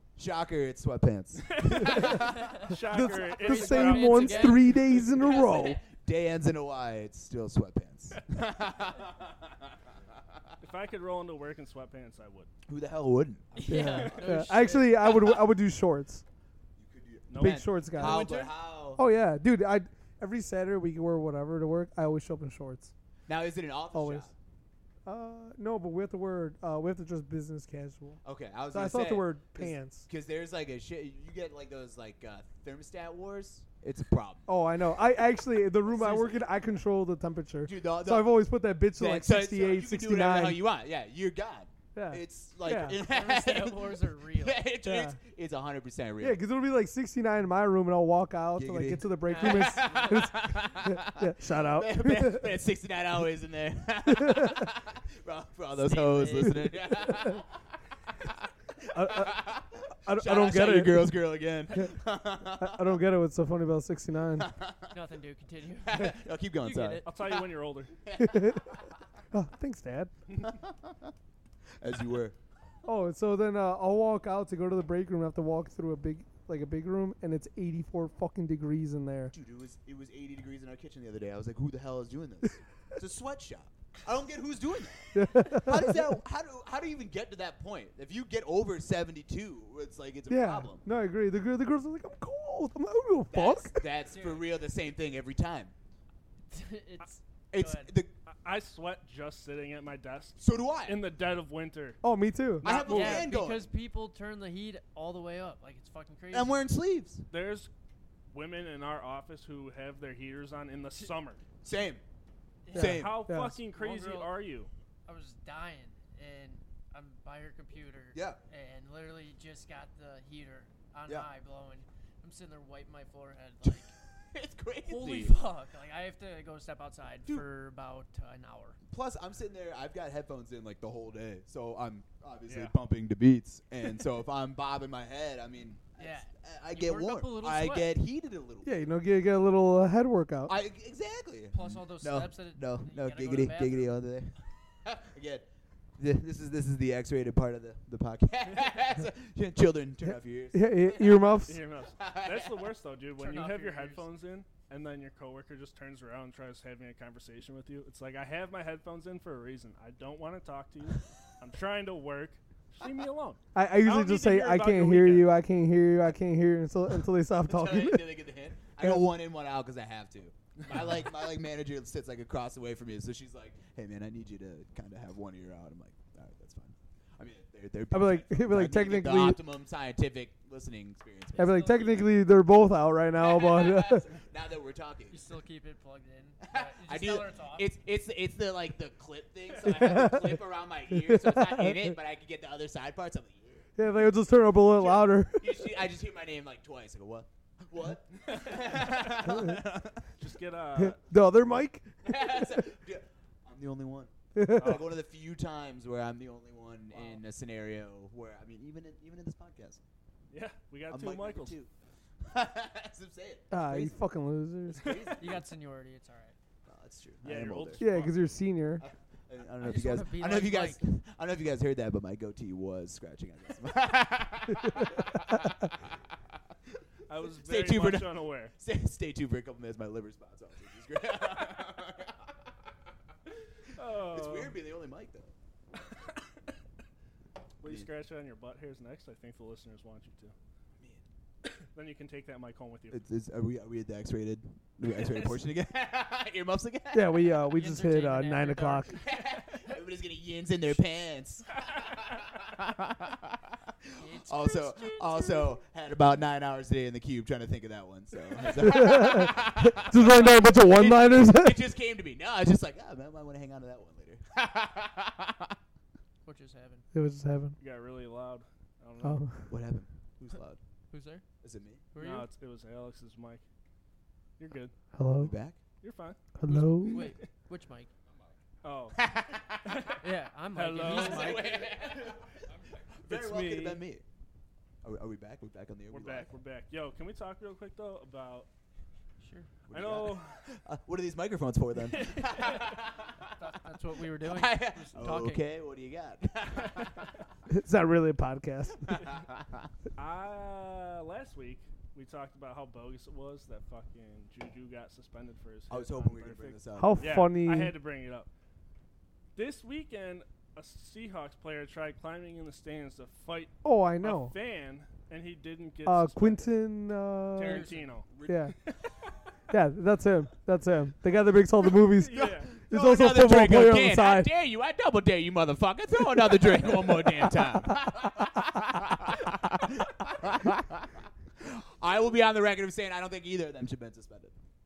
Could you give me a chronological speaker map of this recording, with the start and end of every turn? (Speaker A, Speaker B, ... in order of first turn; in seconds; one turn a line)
Speaker A: 0.2-2.7
Speaker B: 1.4-5.0
Speaker C: 1.7-5.8
Speaker D: 3.4-4.7
Speaker A: 5.0-10.5
Speaker B: 10.6-12.5
Speaker A: 12.7-14.6
Speaker D: 13.5-15.3
Speaker C: 13.7-16.2
Speaker A: 16.8-19.0
Speaker B: 17.3-17.9
Speaker C: 17.4-18.3
Speaker D: 18.0-18.5
Speaker C: 18.9-22.9
Speaker A: 23.3-24.3
Speaker C: 23.9-24.3
Speaker C: 25.1-28.2
Speaker A: 28.2-34.5
Speaker C: 28.7-30.1
Speaker C: 34.5-40.6
Speaker A: 35.9-36.5
Speaker A: 37.6-38.4
Speaker A: 38.9-46.4
Speaker C: 42.0-43.0
Speaker D: 43.0-44.6
Speaker C: 44.9-45.2
Speaker C: 46.2-52.5
Speaker A: 48.5-57.5
Speaker D: 49.2-50.2
Speaker C: 54.1-54.7
Speaker D: 55.8-56.7
Speaker C: 56.5-57.4
Speaker A: 58.2-63.0
Speaker C: 58.9-59.5
Speaker C: 60.1-61.1
Speaker C: 62.6-64.5
Speaker A: 64.4-65.0
Speaker D: 64.9-67.1
Speaker A: 65.8-67.4
Speaker B: 67.0-67.9
Speaker A: 68.0-68.9
Speaker C: 68.2-68.7
Speaker C: 69.3-70.1
Speaker A: 70.4-71.1
Speaker A: 71.8-72.4
Speaker C: 72.8-79.3
Speaker A: 79.3-90.8
Speaker C: 85.1-86.1
Speaker C: 90.3-93.8
Speaker A: 93.3-95.7
Speaker D: 94.1-94.5
Speaker D: 96.5-97.9
Speaker A: 97.5-98.1
Speaker B: 98.3-102.0
Speaker A: 100.4-101.0
Speaker C: 102.0-102.7
Speaker B: 102.6-103.3
Speaker A: 102.6-103.7
Speaker D: 102.8-106.5
Speaker A: 106.3-107.3
Speaker B: 107.3-107.7
Speaker B: 108.3-111.4
Speaker A: 111.6-112.0
Speaker D: 112.7-113.0
Speaker A: 112.7-113.2
Speaker C: 112.7-113.6
Speaker B: 112.8-114.7
Speaker D: 113.7-114.4
Speaker D: 115.1-123.9
Speaker A: 118.1-118.4
Speaker A: 123.6-125.4
Speaker D: 124.9-128.8
Speaker A: 128.9-138.8
Speaker B: 132.5-132.7
Speaker D: 136.0-137.9
Speaker C: 138.6-140.6
Speaker A: 140.5-145.5
Speaker D: 141.5-143.9
Speaker A: 146.0-151.4
Speaker C: 150.5-151.6
Speaker B: 151.4-165.3
Speaker A: 151.9-152.7
Speaker D: 153.2-154.1
Speaker C: 163.6-168.1
Speaker A: 167.4-182.0
Speaker C: 168.8-169.1
Speaker C: 177.9-179.4
Speaker C: 181.4-184.1
Speaker D: 181.7-181.9
Speaker A: 183.2-185.3
Speaker D: 185.1-187.7
Speaker A: 186.4-193.7
Speaker C: 189.6-191.9
Speaker C: 193.8-195.7
Speaker A: 194.7-200.1
Speaker C: 199.3-199.6
Speaker B: 200.2-201.0
Speaker C: 200.8-201.9
Speaker A: 202.0-209.8
Speaker C: 204.3-204.8
Speaker B: 204.6-204.8
Speaker D: 206.9-207.2
Speaker B: 210.3-211.6
Speaker A: 210.9-211.7
Speaker A: 212.2-214.0
Speaker C: 213.5-215.0
Speaker A: 214.7-215.5
Speaker D: 215.2-216.3
Speaker A: 216.7-217.8
Speaker B: 217.2-218.3
Speaker C: 217.8-218.8
Speaker A: 218.8-226.0
Speaker D: 219.6-220.8
Speaker B: 227.1-228.5
Speaker A: 227.3-232.5
Speaker B: 233.8-234.6
Speaker A: 233.9-235.3
Speaker B: 237.6-240.3
Speaker B: 241.7-243.0
Speaker A: 242.9-247.3
Speaker C: 246.9-249.0
Speaker D: 247.5-249.0
Speaker A: 248.9-265.6
Speaker D: 254.0-255.6
Speaker C: 258.6-261.6
Speaker D: 266.2-266.8
Speaker C: 266.9-267.6
Speaker B: 267.6-269.2
Speaker C: 269.0-269.6
Speaker A: 269.5-270.6
Speaker D: 270.9-271.2
Speaker A: 271.4-271.8
Speaker D: 271.9-272.3
Speaker B: 272.0-273.4
Speaker B: 274.4-274.7
Speaker C: 274.9-275.3
Speaker A: 275.2-275.6
Speaker B: 275.8-276.2
Speaker C: 276.4-277.1
Speaker D: 276.5-277.9
Speaker B: 276.9-277.2
Speaker B: 278.6-279.1
Speaker A: 278.9-280.0
Speaker B: 279.6-280.0
Speaker D: 280.0-281.6
Speaker B: 280.6-281.6
Speaker A: 280.8-284.0
Speaker B: 283.1-283.8
Speaker A: 284.8-286.3
Speaker B: 285.9-288.5
Speaker D: 289.2-289.5
Speaker A: 289.7-293.4
Speaker B: 289.7-290.4
Speaker B: 291.9-292.7
Speaker D: 293.3-295.4
Speaker A: 294.1-297.2
Speaker C: 297.5-299.0
Speaker A: 298.9-299.7
Speaker B: 300.0-308.3
Speaker A: 305.7-307.1
Speaker C: 306.8-307.7
Speaker B: 309.4-316.5
Speaker C: 313.6-314.3
Speaker C: 315.9-317.7
Speaker B: 317.4-318.1
Speaker D: 317.4-317.8
Speaker A: 318.1-318.6
Speaker C: 318.2-318.6
Speaker B: 318.6-318.9
Speaker C: 319.5-324.3
Speaker B: 321.9-322.5
Speaker A: 322.1-334.4
Speaker C: 327.3-327.7